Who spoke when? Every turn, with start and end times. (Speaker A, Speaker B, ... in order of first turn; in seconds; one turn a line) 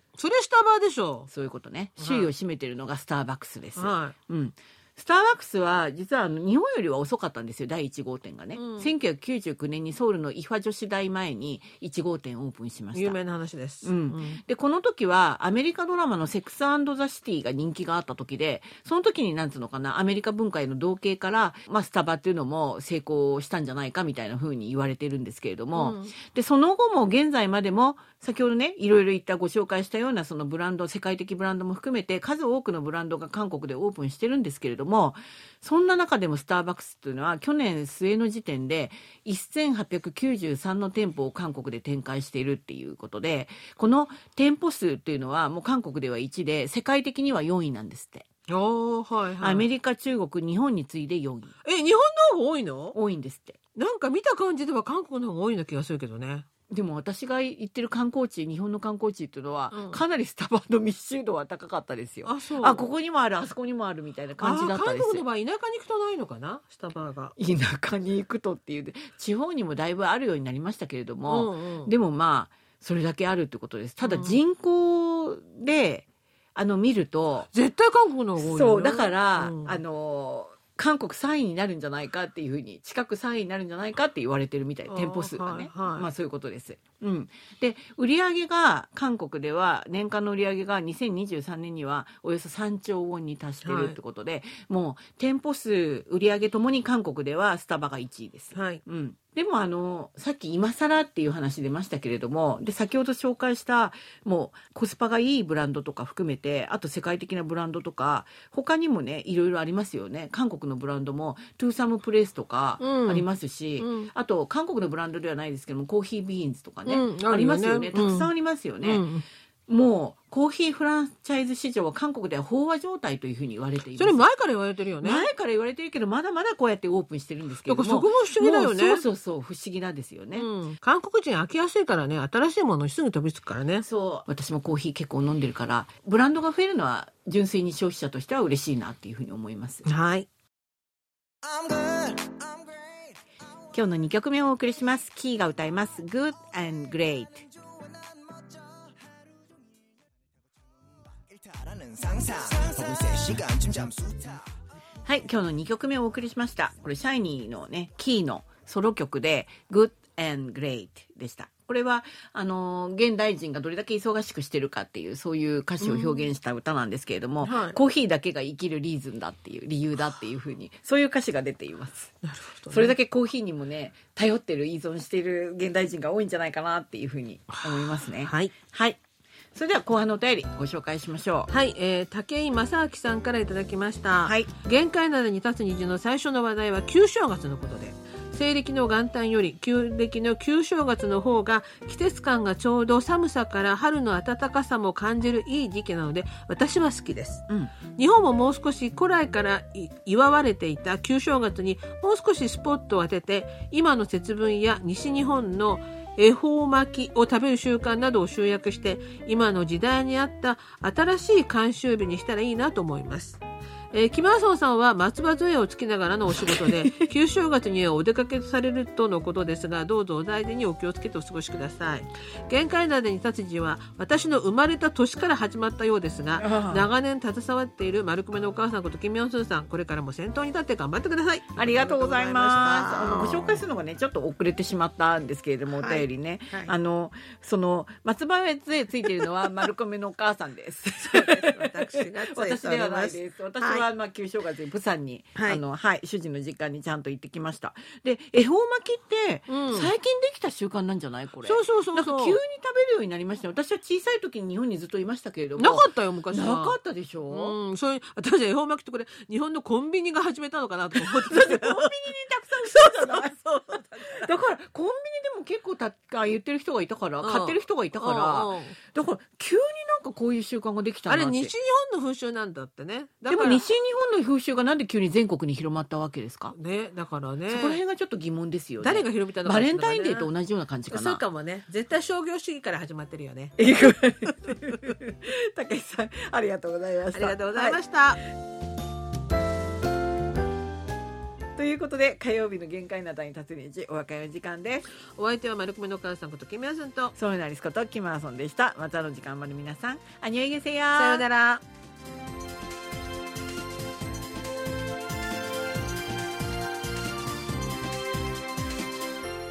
Speaker A: 0.2-1.3
Speaker B: 1.3-13.2
Speaker A: 2.0-2.3
Speaker A: 3.8-4.2
Speaker A: 8.6-8.9
Speaker A: 12.9-14.4
Speaker B: 13.8-48.3
Speaker A: 25.8-26.1
Speaker A: 48.5-49.7
Speaker B: 49.4-51.5
Speaker A: 51.6-53.0
Speaker B: 52.9-53.6
Speaker A: 53.8-56.5
Speaker B: 56.7-65.2
Speaker A: 59.7-60.0
Speaker A: 62.2-62.8
Speaker A: 64.4-67.3
Speaker B: 67.4-77.5
Speaker A: 71.3-71.9
Speaker A: 74.0-74.4
Speaker A: 77.5-79.8
Speaker B: 78.4-119.0
Speaker A: 84.9-86.1
Speaker A: 93.6-94.0
Speaker A: 98.5-98.8
Speaker A: 112.8-113.3
Speaker A: 113.8-114.1
Speaker A: 116.9-118.3
Speaker A: 118.8-119.2
Speaker B: 119.7-124.2
Speaker A: 124.0-125.3
Speaker B: 125.0-130.5
Speaker A: 127.7-129.1
Speaker A: 130.3-133.9
Speaker B: 133.8-139.9
Speaker A: 139.9-140.3
Speaker C: 141.4-143.0
Speaker B: 143.7-147.5
Speaker C: 147.9-148.5
Speaker C: 151.2-154.5
Speaker B: 155.1-172.1
Speaker A: 165.8-166.3
Speaker A: 167.4-167.8
Speaker A: 172.2-172.9
Speaker B: 172.7-179.0
Speaker A: 177.5-178.5
Speaker B: 179.6-181.5
Speaker A: 181.5-233.6
Speaker B: 184.2-184.5
Speaker B: 216.4-217.1
Speaker B: 226.4-226.9
Speaker B: 231.6-257.6
Speaker A: 235.7-236.7
Speaker A: 239.0-239.3
Speaker A: 241.0-243.9
Speaker A: 245.3-245.6
Speaker A: 249.5-249.9
Speaker A: 251.4-252.4
Speaker A: 255.6-256.8
Speaker A: 257.3-261.9
Speaker B: 260.9-263.4
Speaker A: 262.6-264.3
Speaker B: 264.0-271.5
Speaker A: 267.2-268.8
Speaker A: 271.1-273.6
Speaker B: 273.3-276.6
Speaker A: 276.5-277.8
Speaker B: 277.5-281.2
Speaker A: 278.8-280.3
Speaker A: 280.9-283.6
Speaker B: 283.6-287.8
Speaker A: 287.1-288.2
Speaker B: 291.6-294.9
Speaker A: 295.2-297.1
Speaker B: 297.1-301.2
Speaker A: 300.9-301.6